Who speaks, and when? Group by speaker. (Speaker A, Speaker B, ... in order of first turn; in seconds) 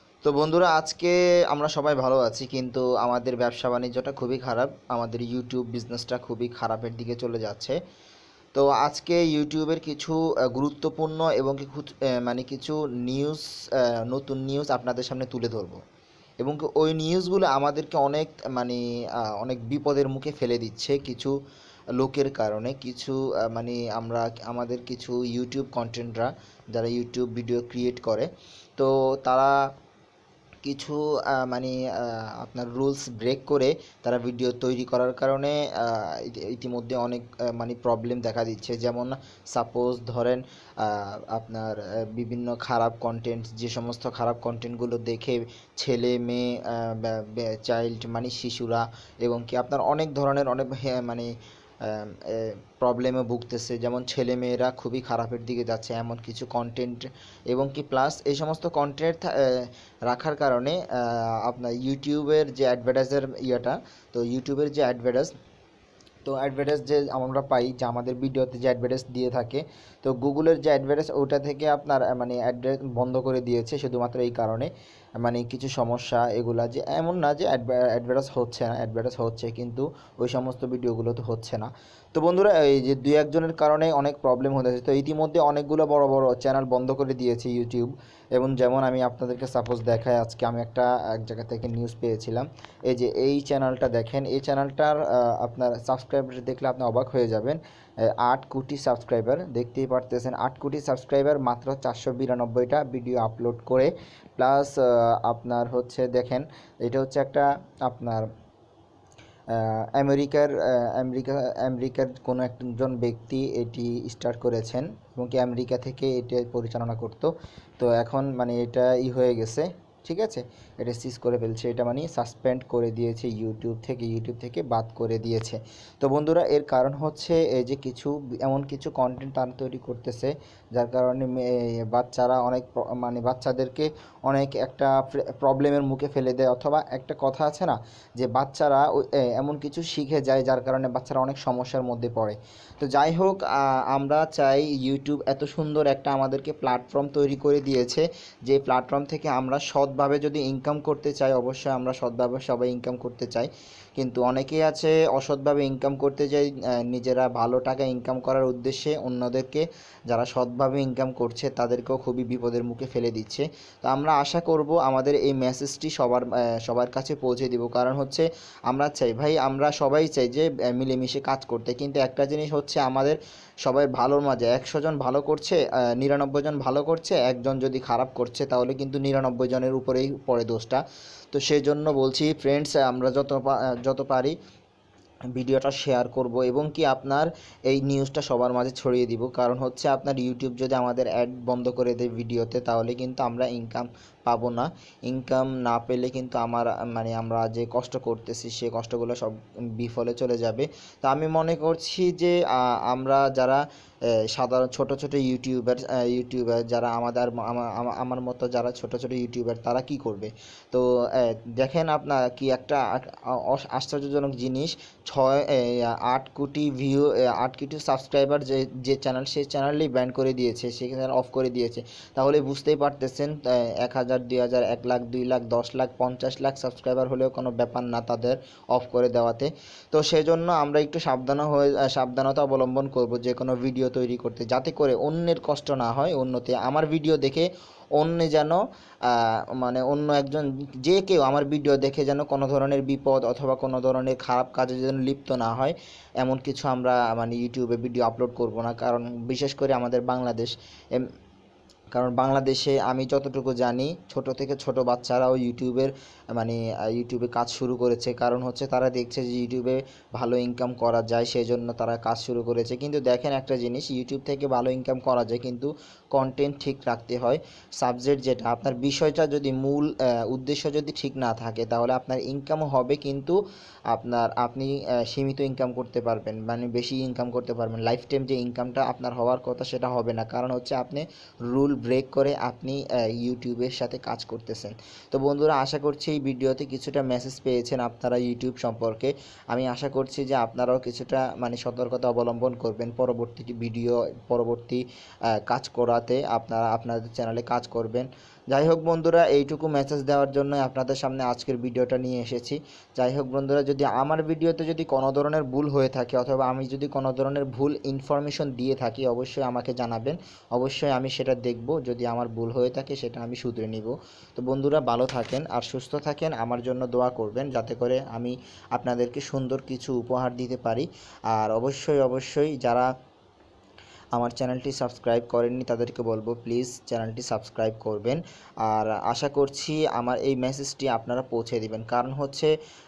Speaker A: 0.2-7.8, 8.5-15.8, 16.4-21.3, 22.0-29.6, 30.6-51.3, 51.8-65.3, 66.2-108.3, 109.5-184.3, 185.3-203.6, 204.3-251.1, 251.9-273.4, 273.9-294.8, 295.4-322.9, 324.1-332.5